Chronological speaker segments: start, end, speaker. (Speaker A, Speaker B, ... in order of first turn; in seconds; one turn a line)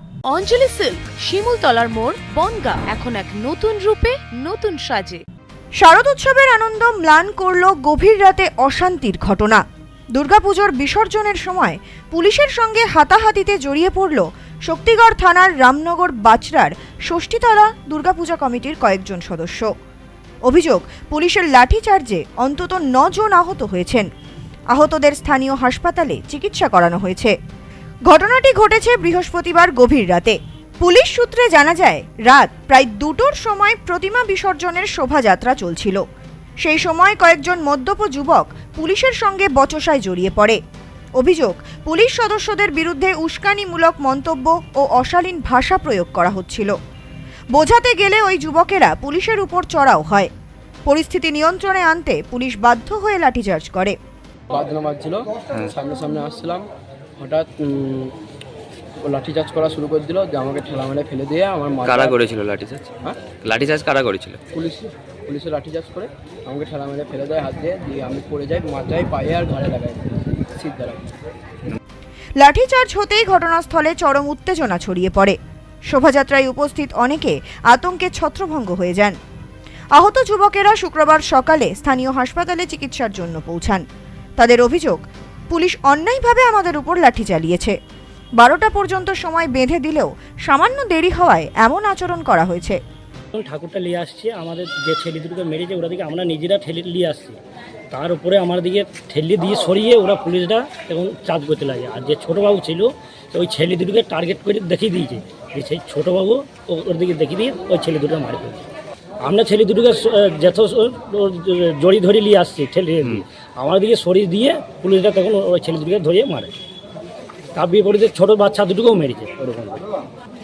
Speaker A: 0.3-5.2
Speaker B: 5.8-9.6
Speaker B: 10.2-19.7
Speaker B: 20.5-24.1
Speaker B: 24.7-27.3
Speaker B: 28.1-36.0
Speaker B: 36.6-40.6
Speaker B: 41.2-46.8
Speaker B: 47.5-50.3
Speaker B: 50.9-54.0
Speaker C: 54.5-55.2
Speaker C: 55.8-56.6
Speaker C: 57.2-58.1
Speaker C: 59.0-62.1
Speaker D: 61.8-64.4
Speaker C: 64.6-71.1
Speaker B: 72.4-75.4
Speaker B: 75.9-79.2
Speaker B: 80.0-83.8
Speaker B: 84.4-87.8
Speaker B: 88.4-92.8
Speaker E: 93.3-97.4
Speaker E: 97.9-108.7
Speaker E: 109.2-116.5
Speaker E: 117.5-119.8